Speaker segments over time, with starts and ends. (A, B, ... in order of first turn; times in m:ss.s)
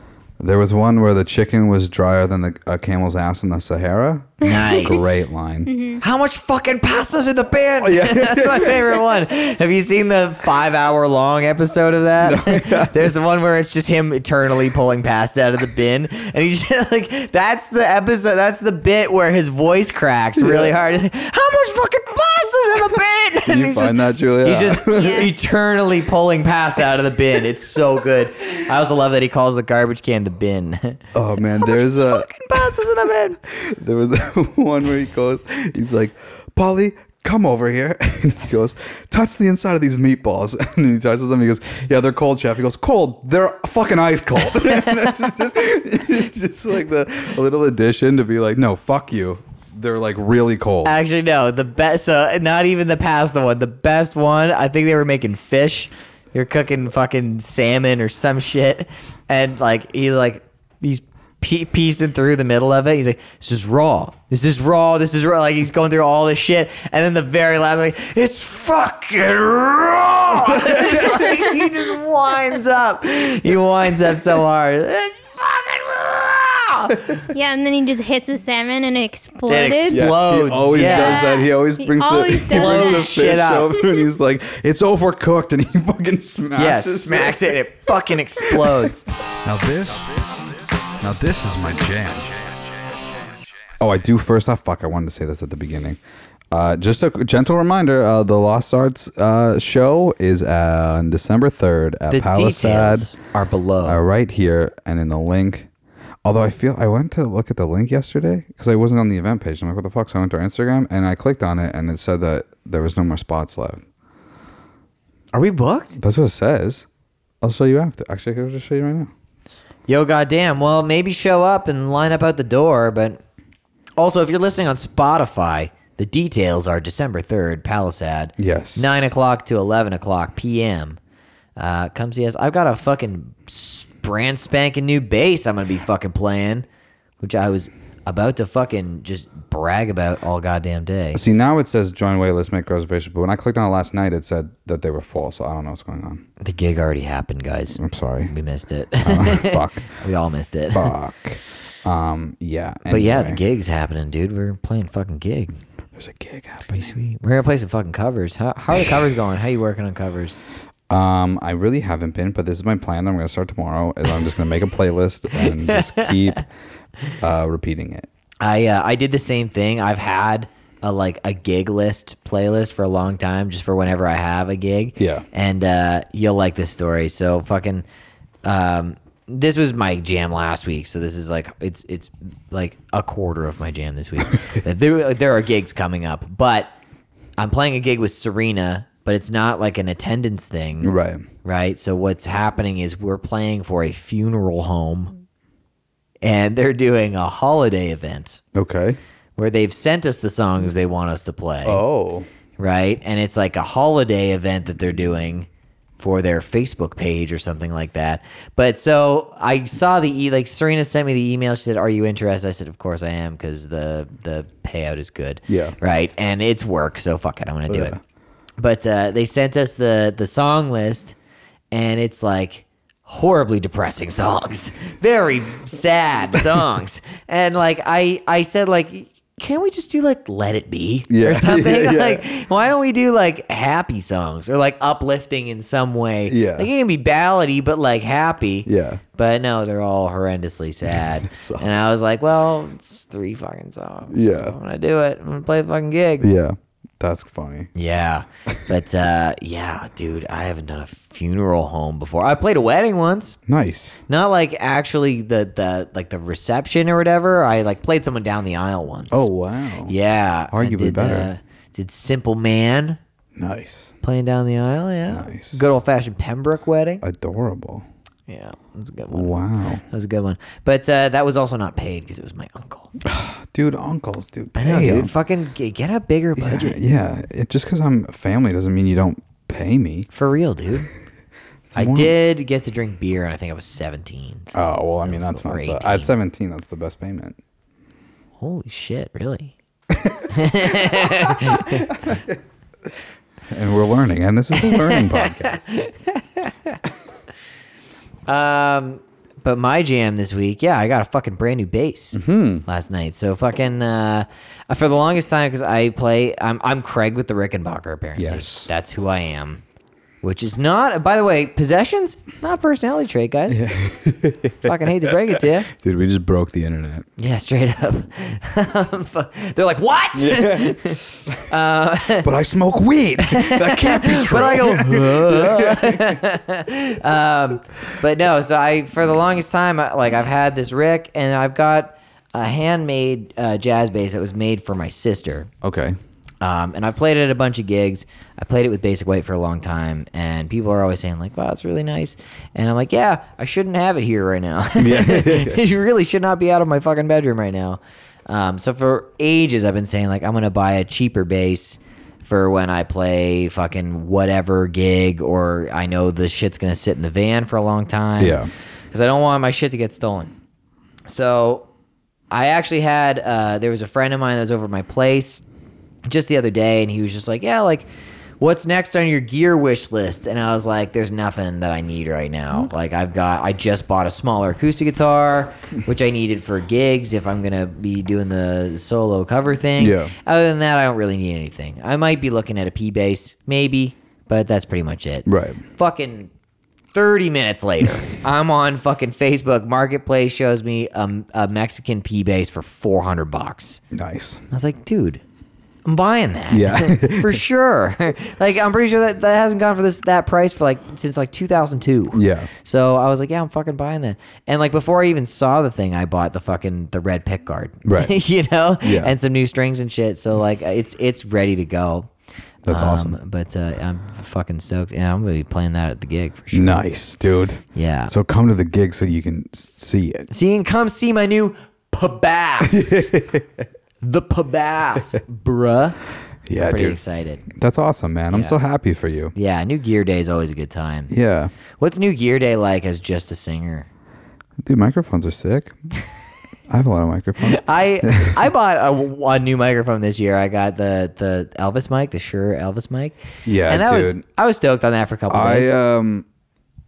0:00.4-0:05.7 A
0:04.4-0:05.2 B
0:04.5-0:05.1 C
0:05.6-0:06.0 C
0:06.0-0:33.4 B
0:07.8-0:09.0 A
0:12.2-0:13.1 A
0:20.4-0:20.8 A
0:23.4-0:25.3 A
0:24.9-0:25.3 C
0:31.1-0:32.7 A
0:33.4-0:51.0 A
0:44.6-0:45.2 B
0:50.8-1:17.1 B
1:10.5-1:11.3 A
1:17.3-1:20.0 C
1:19.5-1:21.3 B
1:19.9-1:27.6 A
1:20.7-1:23.1 C
1:22.5-1:23.7 B
1:26.6-1:29.0 B
1:28.4-1:28.9 A
1:29.4-1:30.5 A
1:31.0-1:32.4 A
1:33.8-1:36.0 A
1:36.5-1:43.1 A
1:42.1-1:44.0 B
1:43.8-1:45.7 A
1:46.2-1:53.8 A
1:55.3-1:56.0 B
1:56.0-1:56.9 A
1:57.4-1:59.1 A
1:59.9-2:03.2 B
2:04.0-2:11.0 B
2:08.4-2:08.9 A
2:11.6-2:16.6 B
2:17.2-2:21.2 B
2:21.1-2:26.2 A
2:26.4-2:30.9 B
2:27.8-2:28.3 A
2:29.0-2:29.9 A
2:30.7-2:33.4 A
2:32.9-2:35.5 B
2:36.0-2:36.9 A
2:36.7-2:40.4 B
2:40.9-2:46.4 A
2:45.3-2:46.4 B
2:47.2-2:48.1 A
2:48.4-2:57.8 B
2:55.0-2:55.2 A
2:58.4-3:06.7 B
3:07.4-3:10.9 B
3:10.8-3:11.2 A
3:11.4-3:15.1 B
3:16.2-3:18.4 B
3:18.5-3:19.0 A
3:19.4-3:21.8 B
3:21.6-3:22.3 A
3:22.6-3:25.5 B
3:26.0-3:38.0 B
3:35.5-3:35.8 A
3:37.7-3:38.0 A
3:38.6-3:41.2 B
3:41.7-4:06.3 B
3:51.1-3:52.2 A
3:56.3-3:56.7 A
3:58.6-3:59.0 A
4:01.2-4:01.8 A
4:04.1-4:04.6 A
4:06.2-4:07.7 A
4:07.8-4:13.4 B
4:13.5-4:14.0 A
4:14.1-4:19.3 B
4:19.1-4:19.9 A
4:19.9-4:23.0 B
4:20.5-4:21.3 A
4:23.4-4:24.0 A
4:24.0-4:27.0 B
4:25.1-4:25.7 A
4:27.0-4:27.9 A
4:28.3-4:29.3 B
4:29.1-4:29.8 A
4:29.9-4:33.0 B
4:33.0-4:35.1 A
4:34.5-4:36.8 B
4:36.4-4:40.1 A
4:40.1-4:40.9 B
4:41.7-4:42.2 A
4:41.8-4:46.1 B
4:44.5-4:47.4 A
4:48.4-4:49.5 B
4:49.9-4:52.4 A
4:50.3-4:52.2 B
4:53.5-4:55.7 A
4:54.6-4:56.8 B
4:58.3-5:09.6 B
5:02.1-5:02.6 A
5:08.2-5:08.7 A
5:10.2-5:13.6 B
5:13.5-5:17.0 A
5:14.6-5:15.7 B
5:17.2-5:22.3 B
5:20.1-5:21.5 A
5:22.2-5:26.2 A
5:23.2-5:35.5 B
5:35.6-5:36.0 A
5:36.4-5:58.4 B
5:44.8-5:45.6 A
5:58.2-5:58.5 A
5:58.9-6:00.3 B
6:01.1-6:01.7 B
6:02.3-6:05.4 B
6:06.1-6:07.9 B
6:08.4-6:26.3 B
6:19.8-6:20.1 A
6:25.2-6:25.6 A
6:26.9-6:33.8 B
6:33.9-6:34.4 A
6:34.5-6:35.2 B
6:35.8-6:52.1 B
6:36.5-6:37.4 A
6:42.1-6:42.5 A
6:47.8-6:48.2 A
6:48.8-6:49.1 A
6:52.6-6:53.2 A
6:52.7-6:56.8 B
6:56.5-7:00.3 A
6:57.7-6:58.1 B
7:00.3-7:03.1 B
7:02.6-7:03.6 A
7:04.0-7:06.0 B
7:06.5-7:09.3 A
7:06.6-7:07.4 B
7:09.3-7:11.1 B
7:11.1-7:11.5 A
7:11.8-7:13.9 B
7:14.6-7:15.7 A
7:16.7-7:18.4 A
7:17.4-7:23.2 B
7:23.5-7:24.2 A
7:23.7-7:25.7 B
7:25.3-7:26.2 A